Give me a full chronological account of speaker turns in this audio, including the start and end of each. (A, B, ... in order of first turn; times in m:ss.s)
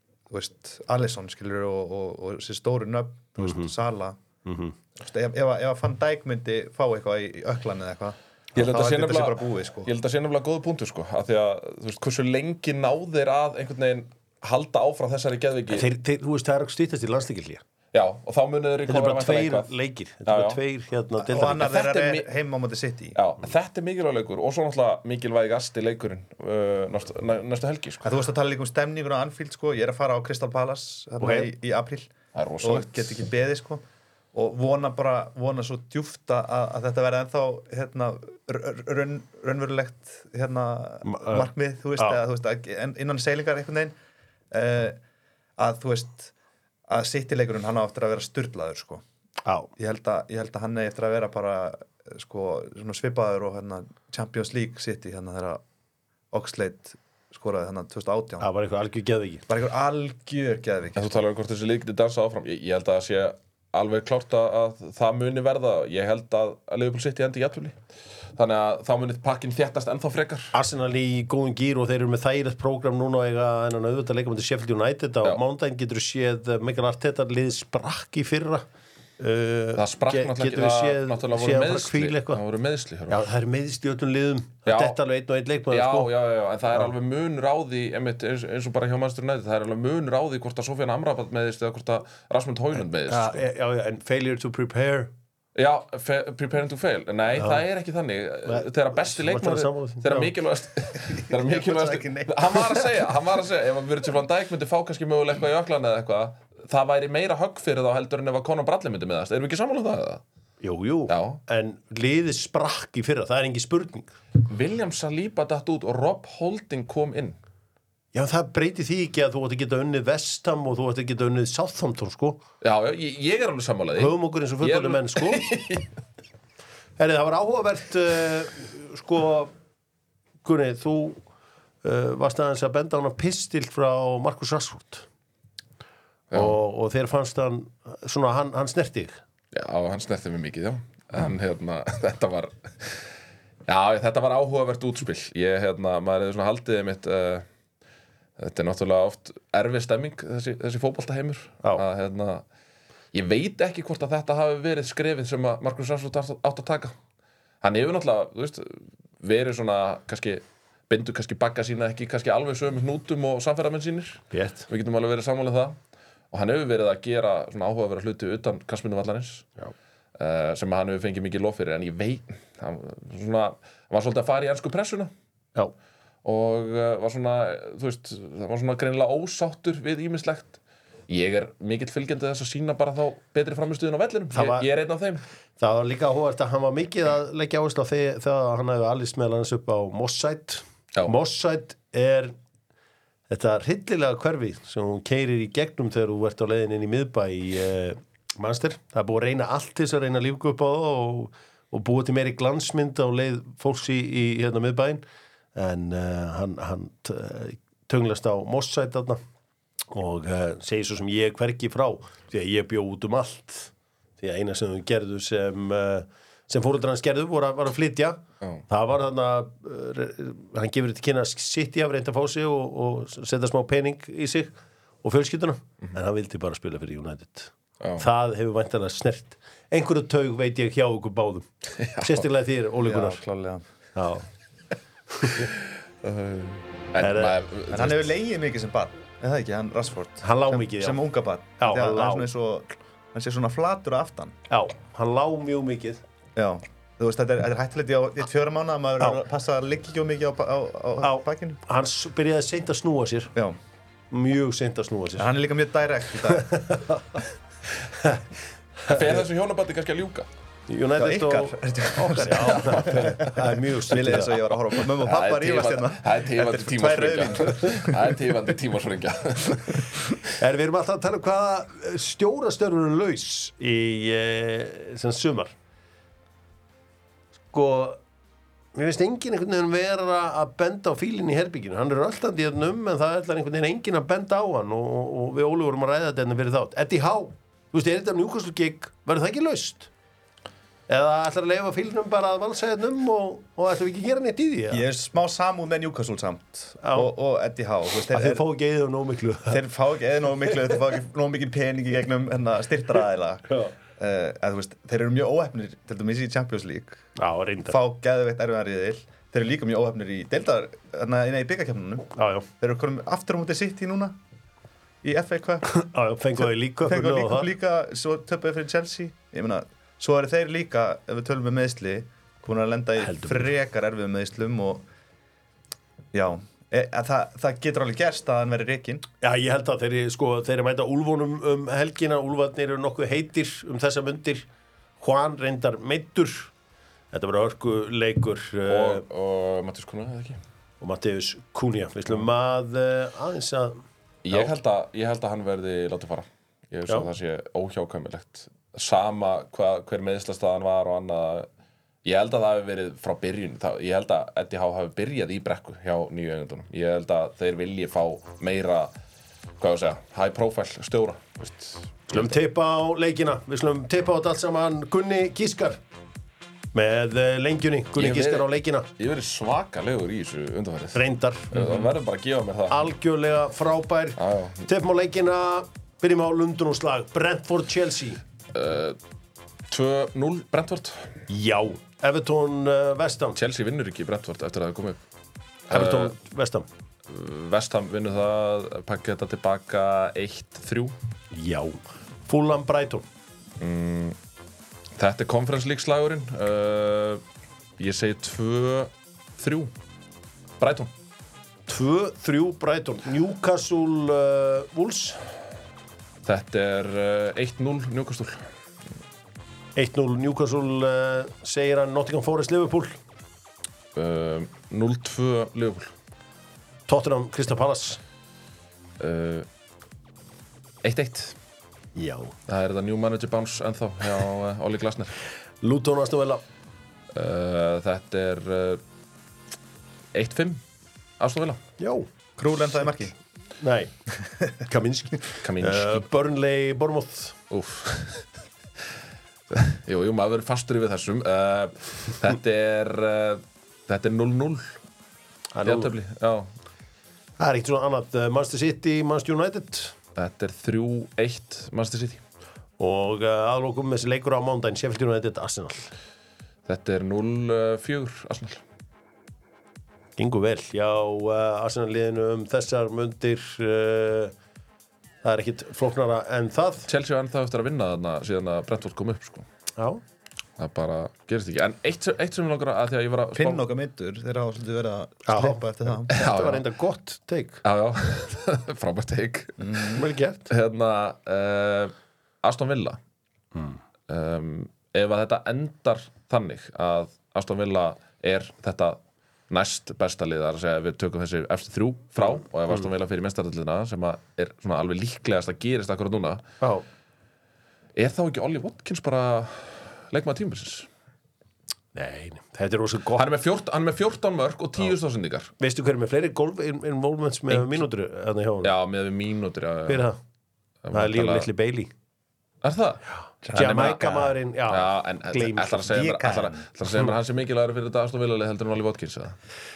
0:00.3-0:04.2 A
0:03.4-0:03.7 B
0:04.4-0:04.7 B
0:05.0-0:09.9 A
0:08.6-0:15.9 C
0:15.7-0:17.6 B
0:17.9-0:19.7 C
0:18.9-0:21.7 B
0:20.2-0:20.6 C
0:21.2-0:23.2 A
0:21.5-0:22.3 C
0:23.1-0:28.0 C
0:28.0-0:43.9 A
0:31.2-0:31.5 B
0:32.3-0:33.2 C
0:41.0-0:42.2 B
0:44.5-0:45.0 A
0:45.6-0:46.3 A
0:46.9-0:49.0 A
0:49.4-0:49.7 B
0:49.8-0:55.6 A
0:56.3-0:58.5 A
0:58.4-0:59.4 B
0:59.5-1:01.1 A
1:01.0-1:07.8 C
1:08.3-1:10.5 C
1:10.5-1:18.6 B
1:19.2-1:22.4 B
1:19.8-1:23.2 C
1:23.1-1:26.1 B
1:24.6-1:25.0 C
1:25.7-1:33.4 C
1:32.8-1:35.1 B
1:35.5-1:50.2 C
1:37.4-1:37.6 B
1:38.4-1:40.3 B
1:41.0-1:43.0 A
1:50.6-1:54.1 B
1:51.1-1:51.4 C
1:54.4-1:57.4 C
1:58.1-2:02.4 B
2:02.6-2:05.9 C
2:04.0-2:05.5 B
2:07.0-2:09.5 B
2:10.4-2:11.2 B
2:11.8-2:15.0 B
2:16.3-2:16.6 C
2:16.3-2:19.2 B
2:19.5-2:23.1 C
2:23.7-2:27.4 C
2:28.4-2:32.4 C
2:33.1-2:36.9 C
2:37.6-2:45.8 C
2:44.3-2:44.6 B
2:46.3-2:49.5 C
2:50.2-2:55.1 C
2:56.2-3:05.2 C
3:04.3-3:04.7 B
3:05.6-3:12.3 B
3:13.3-3:25.0 B
3:25.5-3:29.2 B
3:29.9-3:53.2 B
3:47.8-3:48.0 C
3:51.8-3:52.2 C
3:52.8-3:53.6 A
3:53.9-3:54.3 B
3:55.2-3:55.5 B
3:56.0-3:58.1 C
3:57.0-3:57.4 B
3:57.7-4:04.4 A
4:00.2-4:01.0 B
4:01.6-4:02.3 B
4:04.5-4:06.0 B
4:06.4-4:11.6 A
4:11.0-4:13.3 B
4:14.1-4:15.3 B
4:15.2-4:16.6 A
4:16.3-4:17.2 B
4:17.9-4:18.2 B
4:18.8-4:19.2 B
4:18.8-4:20.3 C
4:20.7-4:24.4 B
4:21.0-4:28.2 A
4:22.4-4:23.3 C
4:24.9-4:30.1 C
4:30.3-4:35.5 B
4:37.5-4:38.0 B
4:38.7-4:49.9 B
4:50.9-4:54.8 B
4:54.7-4:58.4 A
4:56.8-4:57.1 B
4:58.1-4:59.6 B
4:59.5-5:07.1 A
5:07.2-5:07.8 B
5:07.6-5:14.2 A
5:12.1-5:12.5 B
5:15.0-5:15.7 A
5:15.6-5:17.5 B
5:16.8-5:24.8 A
5:23.0-5:23.5 B
5:26.1-5:29.0 A
5:29.2-5:34.5 B
5:35.0-5:36.5 B
5:37.1-5:39.0 B
5:38.7-5:40.4 C
5:40.8-5:44.5 B
5:44.2-5:51.5 C
5:52.0-5:58.9 C
5:59.6-6:02.3 C
6:02.1-6:05.8 B
6:06.7-6:08.9 B
6:08.0-6:12.9 C
6:10.9-6:11.9 B
6:12.7-6:18.2 B
6:14.2-6:14.7 C
6:18.5-6:19.0 C
6:19.7-6:21.2 C
6:21.3-6:23.4 B
6:23.4-6:25.0 C
6:25.7-6:26.1 C
6:25.7-6:26.7 B
6:27.1-6:31.0 C
6:31.3-6:33.0 B
6:33.6-6:34.2 C
6:35.0-6:37.2 C
6:37.8-6:39.7 C
6:40.6-6:40.9 C
6:41.7-6:45.2 B
6:46.2-6:48.4 C
6:49.8-6:53.0 B
6:53.9-6:55.9 C
6:56.9-6:58.0 B
6:59.0-6:59.5 C
7:00.8-7:01.4 C
7:02.0-7:02.3 B
7:02.5-7:05.1 C
7:05.6-7:06.4 B
7:07.1-7:08.8 C
7:10.1-7:10.6 C
7:11.2-7:11.6 C
7:11.8-7:12.1 B
7:12.4-7:13.1 A
7:13.6-7:13.9 B
7:14.6-7:17.4 B
7:15.4-7:16.0 C
7:17.5-7:18.3 C
7:19.5-7:24.8 C
7:25.5-7:25.9 B
7:25.6-7:26.5 C
7:27.4-7:29.9 B
7:30.1-7:32.2 C
7:32.8-7:35.9 B
7:36.6-7:38.6 C
7:40.2-7:44.3 B
7:45.2-7:46.9 B
7:46.9-7:49.4 C
7:49.8-7:50.0 B
7:50.6-7:53.6 C
7:53.3-7:56.1 A
7:55.2-7:57.6 B
7:56.1-7:56.6 C
7:57.6-8:03.0 C
7:59.6-8:00.0 A
7:59.9-8:00.5 B
8:04.1-8:16.4 C
8:18.0-8:20.9 C
8:21.9-8:23.3 B
8:23.1-8:25.5 C
8:25.6-8:28.7 B
8:27.5-8:27.8 C
8:28.6-8:30.1 C
8:29.9-8:30.2 B
8:30.8-8:31.5 C
8:30.9-8:31.9 B
8:32.6-8:39.4 C
8:33.4-8:33.8 A
8:33.5-8:35.9 B
8:35.8-8:36.6 A